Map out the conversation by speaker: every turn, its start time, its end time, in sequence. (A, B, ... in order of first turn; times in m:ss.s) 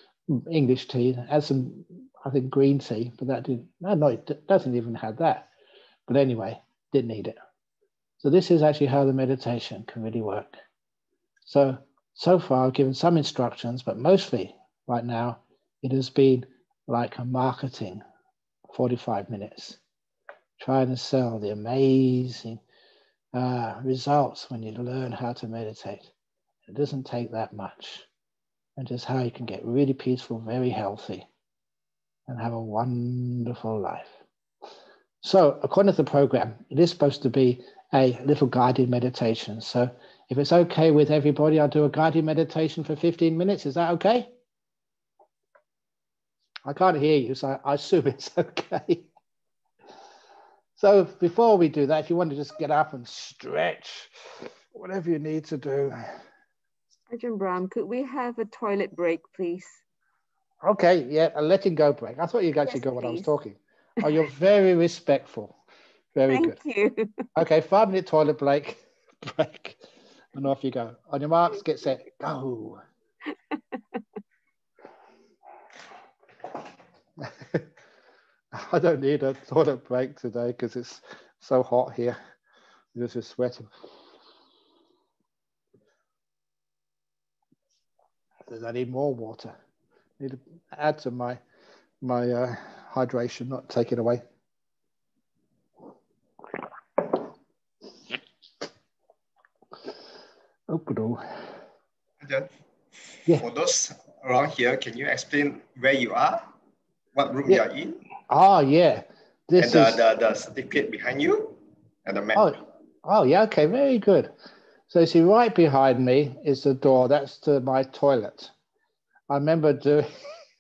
0:00.3-0:05.5 A
0:06.1-0:07.4 A
0:08.2-0:10.6 A
0:11.4-0:18.0 A
0:18.7-0:19.8 A
0:20.6-0:22.6 A
0:23.3-0:26.1 A
0:26.7-0:28.1 A
0:28.8-0:31.3 A
0:32.3-0:34.2 A
0:35.2-0:44.3 A
0:46.6-0:49.1 A
0:50.8-0:56.0 A
0:57.1-0:59.8 B
1:00.6-1:05.6 A
1:02.6-1:03.3 B
1:06.1-1:06.6 A
1:06.3-1:07.3 B
1:07.4-1:09.8 A
1:10.3-1:12.8 A
1:17.2-1:17.7 A
1:18.5-1:22.2 A
1:22.9-1:23.7 A
1:28.5-1:29.5 A
1:30.2-1:31.4 A
1:32.0-1:34.2 A
1:40.7-1:41.2 A
1:42.2-1:46.5 C
1:47.2-1:48.1 C
1:48.3-1:50.1 A
1:49.6-1:52.5 C
1:52.3-1:54.3 A
1:54.9-1:58.5 A
1:59.3-2:00.1 A